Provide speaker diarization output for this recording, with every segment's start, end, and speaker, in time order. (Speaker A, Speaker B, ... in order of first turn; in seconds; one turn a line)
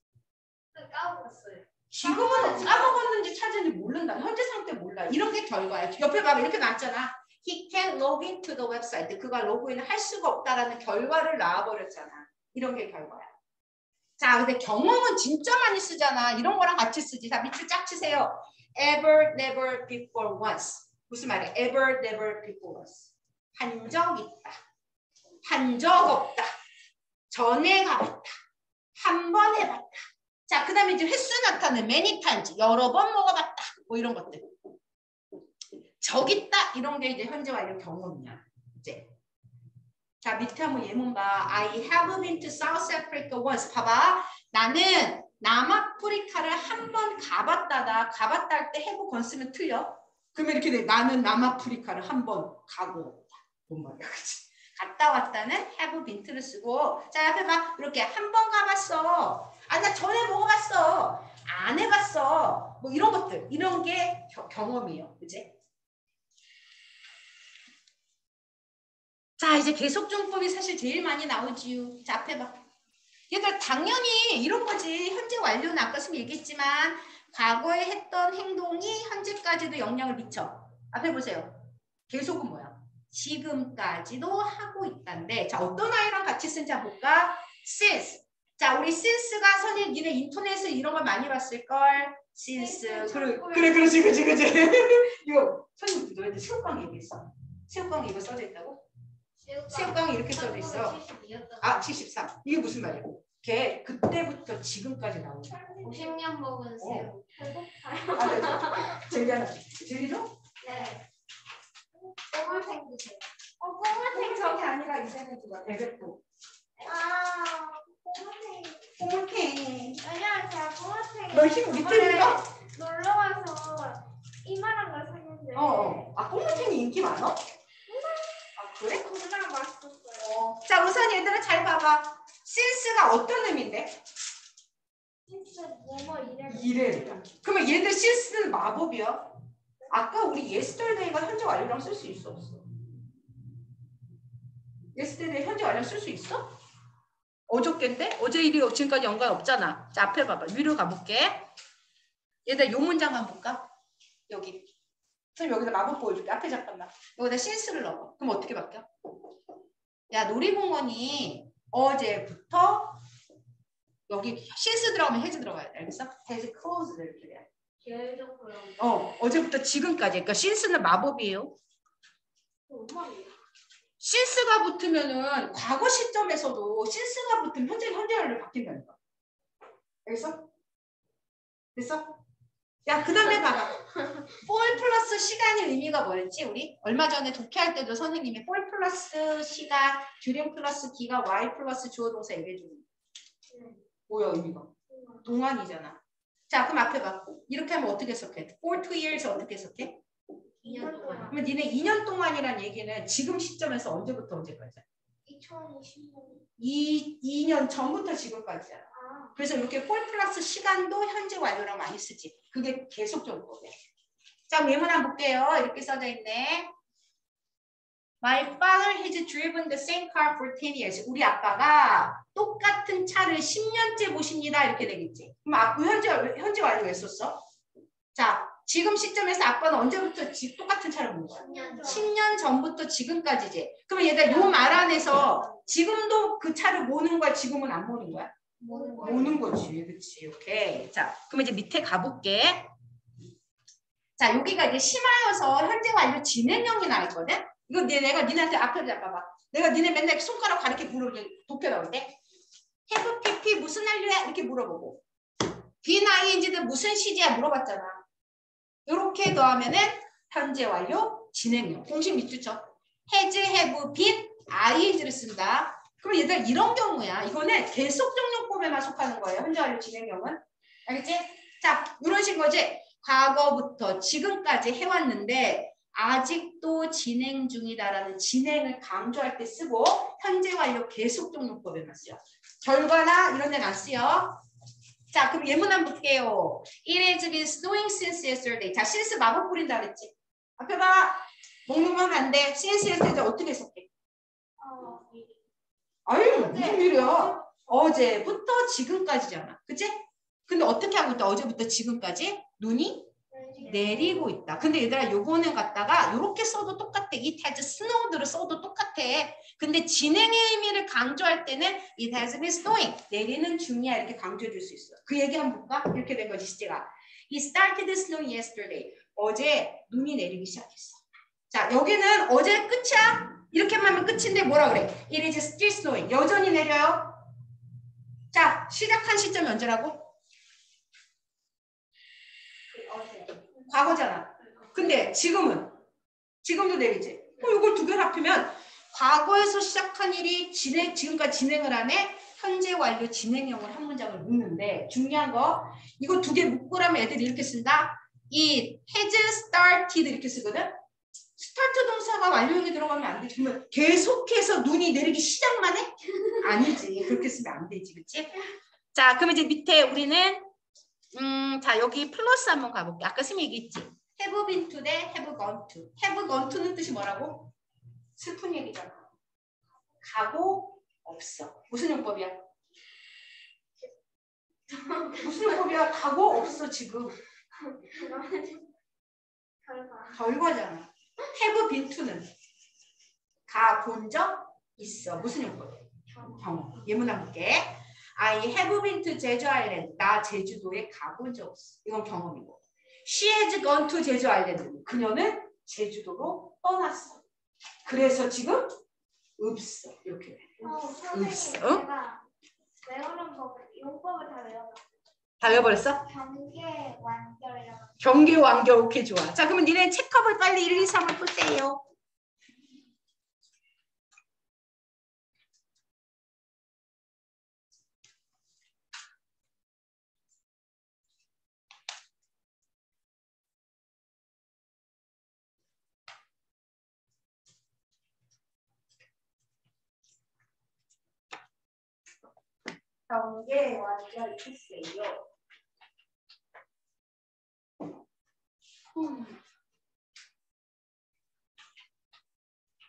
Speaker A: 0.7-3.0
Speaker B: 1.9-13.3
Speaker B: 14.2-24.6
Speaker B: 25.4-26.5
Speaker B: 27.3-28.4
Speaker B: 28.9-34.5
Speaker B: 36.0-39.1
Speaker B: 40.2-65.5
Speaker B: 69.4-72.6
Speaker B: 73.3-98.8
Speaker A: 92.6-93.7
Speaker C: 92.7-93.7
Speaker A: 99.4-101.9
Speaker B: 99.7-101.0
Speaker B: 101.6-105.5
Speaker C: 105.5-106.2
Speaker A: 105.8-109.1
Speaker B: 106.8-107.1
Speaker B: 108.2-110.3
Speaker A: 110.6-111.0
Speaker A: 112.3-113.2
Speaker C: 112.4-112.7
Speaker B: 113.6-116.2
Speaker C: 113.9-114.7
Speaker C: 116.8-118.8
Speaker B: 116.8-117.2
Speaker B: 118.9-120.0
Speaker C: 120.0-126.8
Speaker B: 121.3-122.4
Speaker B: 125.5-127.4
Speaker C: 127.9-130.3
Speaker B: 128.6-129.1
Speaker B: 130.2-134.0
Speaker C: 135.3-137.2
Speaker B: 136.4-139.4
Speaker B: 139.9-142.7
Speaker B: 144.9-146.6
Speaker B: 147.5-151.4
Speaker B: 152.4-153.7
Speaker B: 154.3-154.7
Speaker B: 155.3-158.9
Speaker B: 160.1-163.0
Speaker B: 164.1-167.5
Speaker A: 167.8-168.8
Speaker B: 168.8-171.6
Speaker A: 172.7-173.3
Speaker B: 174.0-179.0
Speaker B: 180.0-180.5
Speaker B: 181.7-182.2
Speaker B: 182.8-183.8
Speaker B: 184.3-192.8
Speaker C: 193.5-193.8
Speaker B: 194.1-194.7
Speaker C: 194.9-195.3
Speaker B: 195.2-200.0
Speaker A: 200.6-201.4
Speaker C: 200.6-201.4
Speaker B: 201.3-204.8
Speaker C: 205.2-206.4
Speaker B: 206.6-213.7
Speaker C: 208.9-209.4
Speaker B: 214.5-216.7
Speaker B: 218.2-227.4
Speaker B: 228.1-238.3
Speaker C: 231.4-232.1
Speaker A: 231.4-232.1
Speaker A: 234.3-235.7
Speaker A: 238.6-239.4
Speaker C: 238.6-239.3
Speaker B: 239.0-242.7
Speaker B: 244.2-252.1
Speaker B: 252.9-255.0
Speaker B: 255.8-258.0
Speaker B: 258.9-284.4
Speaker B: 285.1-293.9
Speaker C: 294.6-295.4
Speaker B: 296.1-303.1
Speaker C: 296.2-297.8
Speaker C: 303.3-304.5
Speaker A: 303.5-303.8
Speaker B: 303.6-327.3
Speaker B: 328.3-330.1
Speaker A: 332.7-333.4
Speaker B: 333.7-335.8
Speaker B: 336.4-350.7
Speaker B: 351.4-360.5
Speaker B: 361.1-367.5
Speaker B: 368.2-369.1
Speaker B: 370.0-372.4
Speaker C: 374.7-375.1
Speaker B: 375.1-377.2
Speaker C: 377.7-378.6
Speaker C: 379.6-380.2
Speaker B: 380.1-382.3
Speaker B: 383.5-397.2
Speaker B: 397.8-398.8
Speaker B: 399.4-400.6
Speaker C: 400.6-402.2
Speaker B: 401.1-401.8
Speaker C: 402.8-404.8
Speaker B: 405.4-406.0
Speaker C: 405.4-408.0
Speaker B: 408.0-411.8
Speaker B: 433.1-435.2
Speaker B: 438.9-439.4